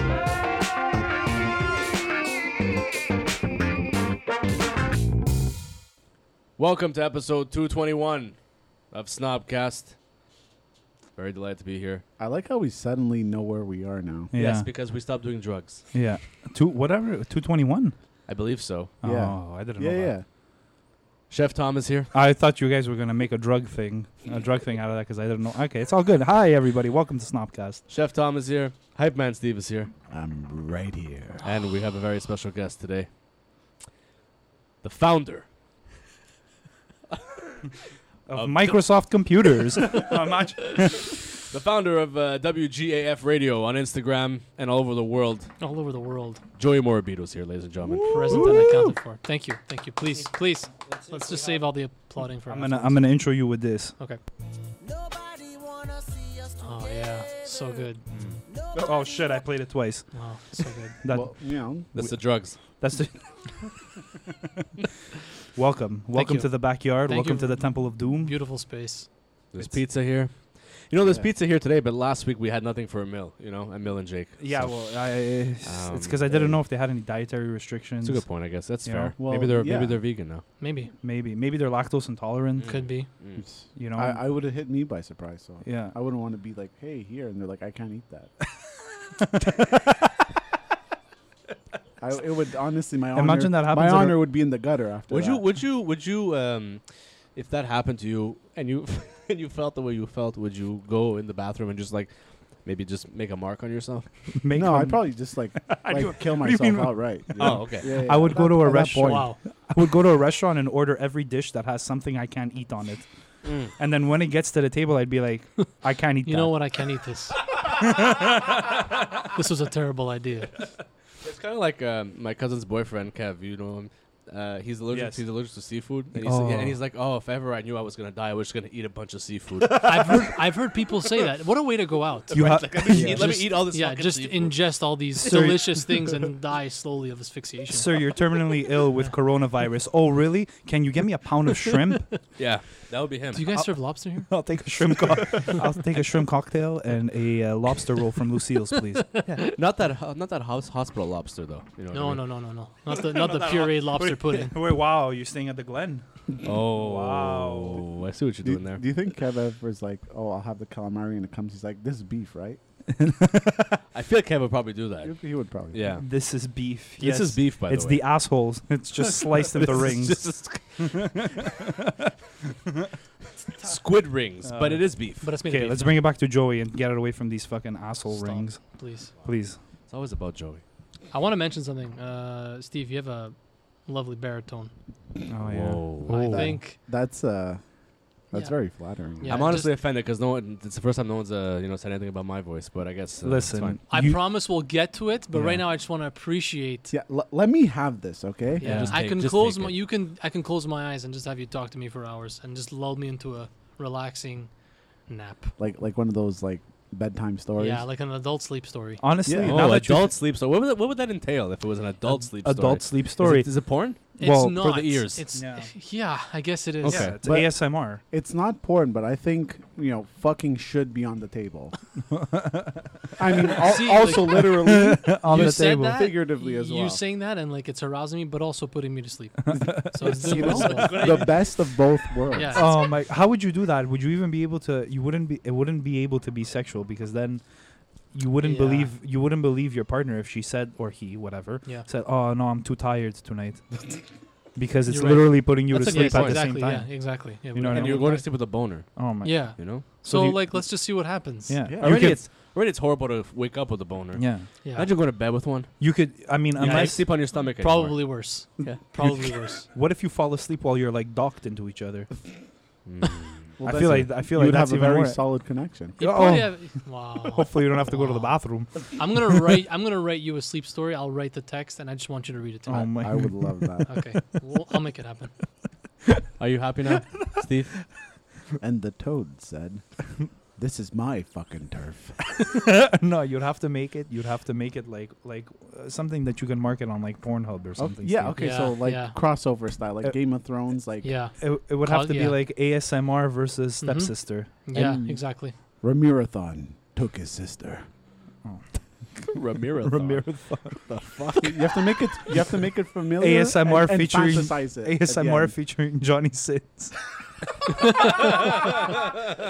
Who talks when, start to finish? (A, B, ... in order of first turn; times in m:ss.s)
0:06.6-0:08.4 A
0:08.9-0:10.0 A
0:11.2-0:12.0 A
0:12.2-0:14.3 B
0:14.3-0:14.7 C
0:14.3-0:15.9 A
0:15.9-0:18.0 C
0:18.3-0:18.9 A
0:19.0-0:20.1 C
0:19.0-0:20.3 B
0:21.3-0:22.1 A
0:22.1-0:27.8 C
0:27.9-0:29.9 A
0:30.1-0:31.5 B
0:31.4-0:33.1 A
0:34.8-0:35.5 A
0:37.1-0:37.6 A
0:38.3-0:41.2 C
0:38.3-0:45.5 A
0:45.6-0:46.4 D
0:46.6-0:48.4 A
0:48.1-0:53.0 D
0:48.1-0:48.9 B
0:48.3-0:48.9 C
0:50.9-0:51.6 C
0:52.5-0:54.0 C
0:56.6-0:58.1 D
0:58.1-0:58.4 A
0:58.8-1:03.9 C
1:00.1-1:01.0 D
1:01.1-1:01.9 B
1:01.9-1:02.8 A
1:05.5-1:08.4 C
1:06.1-1:09.1 D
1:09.5-1:15.1 A
1:11.0-1:11.3 B
1:14.4-1:19.2 C
1:15.6-1:16.2 A
1:16.3-1:16.6 B
1:18.0-1:20.4 A
1:19.2-1:20.0 B
1:20.6-1:20.9 D
1:21.0-1:22.9 C
1:22.6-1:23.4 A
1:22.7-1:23.1 D
1:23.4-1:28.3 B
1:23.8-1:24.2 C
1:25.6-1:25.9 C
1:29.2-1:29.6 C
1:32.0-1:35.4 B
1:33.1-1:34.2 C
1:35.1-1:36.8 A
1:37.4-1:44.1 A
1:44.4-1:53.1 C
1:44.5-1:49.3 B
1:47.4-1:48.0 A
1:49.0-1:49.4 D
1:53.4-1:53.7 A
1:53.6-1:56.6 C
1:56.2-1:57.4 D
1:57.8-1:58.6 C
1:59.3-2:00.6 D
2:01.2-2:10.4 A
2:04.9-2:05.2 C
2:06.2-2:06.8 C
2:09.8-2:12.4 D
2:12.3-2:14.6 A
2:12.3-2:13.4 C
2:12.9-2:13.3 B
2:13.6-2:18.2 D
2:15.2-2:16.0 C
2:17.7-2:22.1 C
2:22.4-2:23.4 A
2:23.3-2:24.4 D
2:23.5-2:29.4 C
2:29.2-2:29.5 D
2:29.5-2:32.2 A
2:31.9-2:34.5 D
2:33.1-2:37.8 C
2:36.4-2:38.8 A
2:38.4-2:42.6 B
2:43.0-2:43.8 C
2:43.9-2:45.2 A
2:45.0-2:45.8 B
2:45.7-2:46.1 A
2:45.9-2:52.1 C
2:47.0-2:48.2 A
2:49.0-2:51.2 A
2:53.6-2:55.3 A
2:54.5-2:58.6 C
2:55.2-2:56.0 D
2:58.1-2:59.1 D
2:59.2-2:59.6 C
2:59.9-3:00.6 A
3:01.1-3:04.7 D
3:05.3-3:06.6 C
3:05.4-3:06.3 A
3:06.1-3:06.8 D
3:06.1-3:07.6 B
3:08.3-3:09.5 B
3:08.3-3:09.8 D
3:09.3-3:13.8 A
3:13.2-3:14.2 C
3:13.9-3:16.9 D
3:15.3-3:15.6 C
3:16.9-3:18.9 B
3:18.6-3:24.5 D
3:18.6-3:19.0 C
3:18.6-3:19.8 A
3:25.1-3:25.5 D
3:25.6-3:27.8 B
3:27.6-3:29.0 D
3:29.0-3:30.1 C
3:29.3-3:29.8 B
3:29.4-3:35.2 A
3:32.0-3:33.5 C
3:34.2-3:34.6 C
3:34.2-3:37.1 D
3:35.3-3:35.7 C
3:36.8-3:37.2 A
3:36.8-3:38.0 C
3:37.2-3:41.7 B
3:42.1-3:43.0 C
3:43.2-3:47.0 B
3:43.6-3:44.7 D
3:44.5-3:46.1 C
3:45.3-3:51.5 D
3:49.5-3:51.0 C
3:49.6-3:52.6 B
3:50.4-3:51.5 A
3:52.3-3:52.8 D
3:52.5-4:04.0 C
3:58.4-3:58.9 D
4:04.6-4:10.7 C
4:04.9-4:08.3 D
4:05.7-4:06.4 A
4:07.6-4:09.8 A
4:09.2-4:11.6 D
4:11.5-4:12.2 C
4:11.6-4:12.2 B
4:11.8-4:18.8 A
4:14.2-4:14.5 C
4:14.6-4:14.9 D
4:15.8-4:17.1 C
4:16.7-4:19.7 D
4:19.0-4:22.1 C
4:22.9-4:23.5 A
4:23.6-4:26.0 B
4:23.6-4:25.2 C
4:26.0-4:29.2 C
4:26.0-4:33.0 D
4:32.7-4:33.8 C
4:33.0-4:34.0 B
4:33.9-4:35.3 D
4:36.4-4:37.8 A
4:38.6-4:42.2 B
4:42.5-4:48.4 C
4:47.8-4:51.1 B
4:48.4-4:49.2 D
4:51.0-4:52.4 D
4:51.4-4:55.1 C
4:53.8-4:55.6 D
4:54.7-4:55.2 B
4:55.8-4:57.9 B
4:58.4-5:00.9 C
4:59.3-5:01.2 A
5:01.1-5:05.6 B
5:03.2-5:07.0 C
5:07.8-5:08.1 C
5:08.0-5:08.8 D